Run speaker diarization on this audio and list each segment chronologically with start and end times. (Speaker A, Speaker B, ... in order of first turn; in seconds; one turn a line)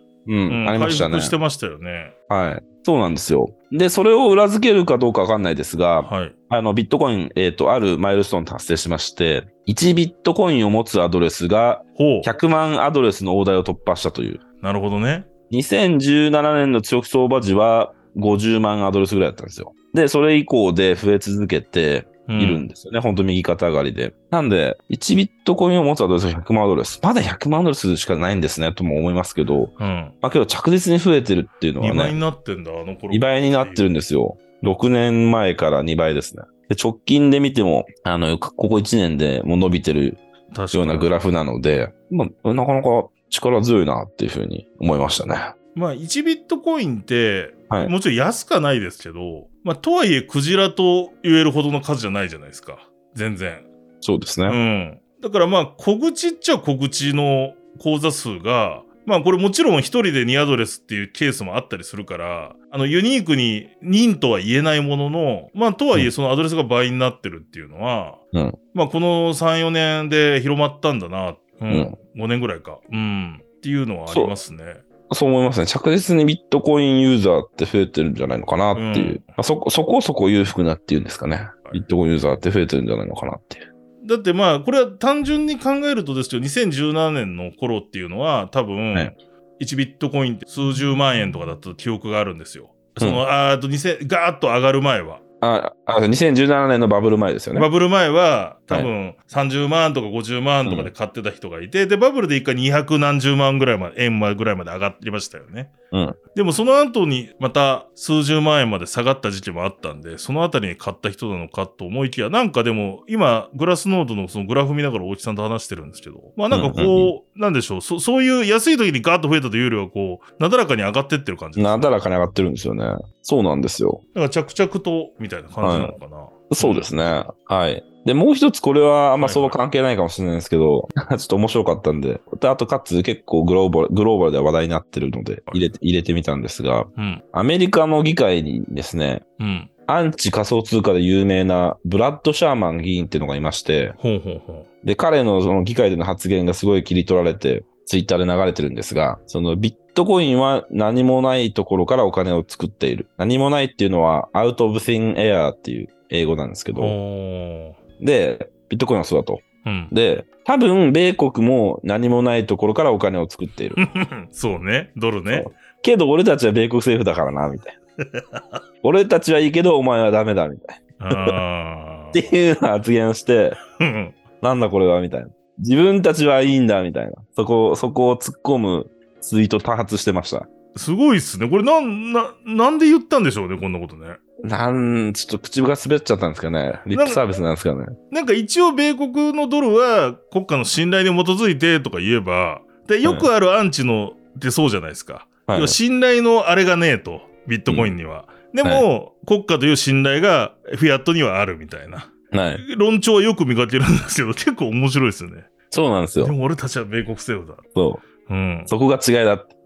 Speaker A: 0.3-1.4
Speaker B: 0.5-2.1
Speaker A: 2.3-14.4
Speaker B: 6.0-6.3
Speaker B: 12.0-12.3
Speaker B: 14.6-15.3
Speaker A: 15.5-32.2
Speaker B: 22.3-22.7
Speaker B: 29.8-30.1
Speaker B: 31.8-33.9
Speaker A: 33.1-40.2
Speaker B: 40.5-41.1
Speaker A: 40.7-45.5
Speaker B: 45.8-53.7
Speaker A: 54.0-54.6
Speaker B: 54.5-68.2
Speaker B: 68.7-74.8
Speaker A: 71.7-72.0
Speaker A: 74.1-74.3
Speaker A: 75.1-83.6
Speaker B: 78.7-79.3
Speaker B: 84.0-95.2
Speaker A: 95.4-97.7
Speaker B: 97.5-105.7
Speaker A: 100.7-100.9
Speaker A: 105.9-106.2
Speaker B: 106.3-121.9
Speaker A: 116.5-117.1
Speaker A: 121.6-124.0
Speaker B: 124.1-126.9
Speaker A: 125.6-126.0
Speaker A: 126.5-139.2
Speaker B: 129.2-129.6
Speaker B: 137.0-137.2
Speaker B: 139.4-139.7
Speaker A: 139.9-144.0
Speaker B: 144.0-144.7
Speaker A: 144.8-156.9
Speaker B: 156.8-157.8
Speaker A: 158.0-163.8
Speaker B: 159.6-159.9
Speaker B: 163.8-165.5
Speaker A: 165.3-167.8
Speaker B: 168.0-168.6
Speaker A: 168.8-171.3
Speaker B: 171.0-172.2
Speaker A: 172.1-173.6
Speaker B: 173.8-174.2
Speaker A: 174.4-180.5
Speaker B: 180.8-184.2
Speaker A: 184.4-187.9
Speaker B: 186.9-187.2
Speaker B: 188.1-205.5
Speaker A: 195.5-195.8
Speaker A: 197.7-197.9
Speaker A: 202.3-202.6
Speaker A: 205.7-206.3
Speaker B: 206.2-207.6
Speaker A: 207.8-208.0
Speaker B: 208.3-208.7
Speaker A: 208.7-209.5